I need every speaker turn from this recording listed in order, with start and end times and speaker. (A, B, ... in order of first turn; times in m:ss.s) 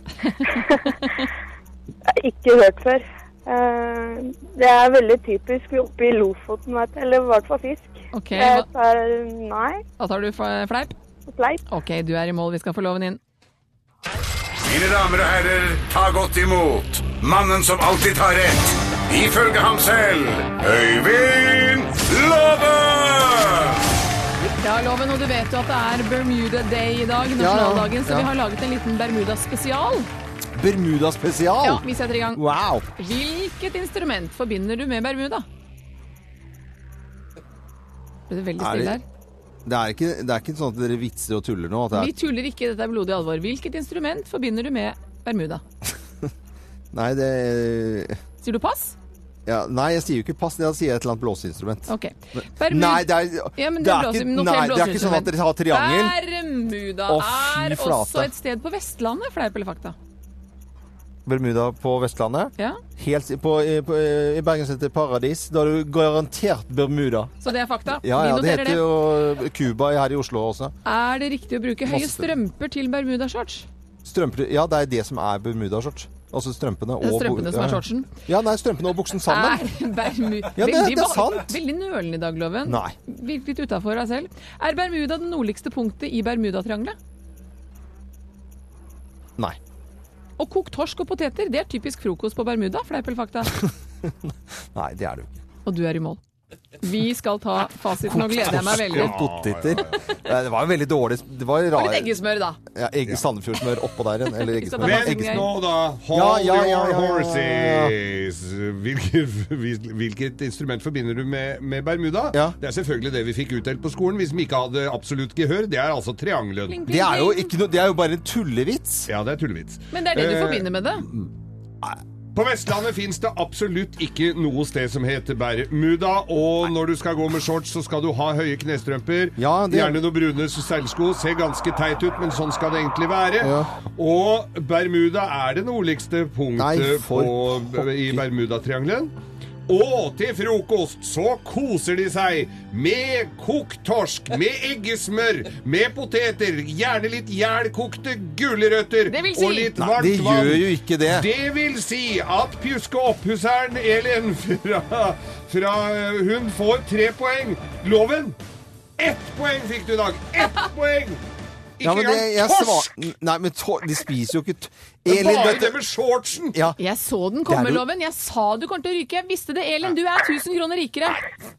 0:00.3-0:01.1 A
0:00.4-0:01.0 B
0:02.2-0:09.8 B
0:08.1-0:08.7 A
0:10.0-0:10.9 A
0:11.3-0:11.6 B
0:11.7-0:13.2 A
0:14.6-0:23.8 C
0:24.4-0:30.1 A
0:27.4-0:28.3 D
0:30.6-0:32.9 D
0:31.6-0:32.4 A
0:33.0-0:35.5 A
0:38.3-0:39.0 A
0:38.6-0:39.0 D
0:39.7-0:42.1 D
0:41.9-0:45.6 A
0:46.9-0:48.2 D
0:48.4-0:49.0 A
0:49.5-0:56.2 D
0:51.9-1:00.0 A
0:57.1-0:58.3 D
1:01.3-1:07.4 D
1:07.4-1:08.8 A
1:07.9-1:10.7 D
1:10.8-1:13.7 A
1:11.8-1:12.4 D
1:14.0-1:19.6 D
1:17.0-1:18.1 A
1:19.3-1:27.0 A
1:20.6-1:21.6 D
1:22.7-1:23.0 D
1:30.4-1:33.5 A
1:33.6-1:35.4 D
1:35.6-1:36.2 A
1:36.8-1:39.2 A
1:38.1-1:42.1 D
1:38.9-1:40.1 E
1:41.8-1:42.6 A
1:42.7-1:45.5 D
1:44.4-1:45.5 A
1:44.8-1:56.8 E
1:46.1-1:48.0 D
1:56.7-1:57.5 A
1:56.9-1:59.1 D
1:59.1-2:01.3 E
1:59.9-2:01.1 A
2:02.3-2:19.1 E
2:09.4-2:10.0 D
2:13.4-2:13.7 D
2:16.6-2:18.2 D
2:19.7-2:38.4 E
2:29.1-2:29.7 A
2:29.8-2:31.3 D
2:39.0-2:41.2 E
2:41.8-2:43.0 E
2:41.8-2:45.8 D
2:45.1-2:46.6 E
2:46.8-2:51.2 A
2:47.5-2:47.8 D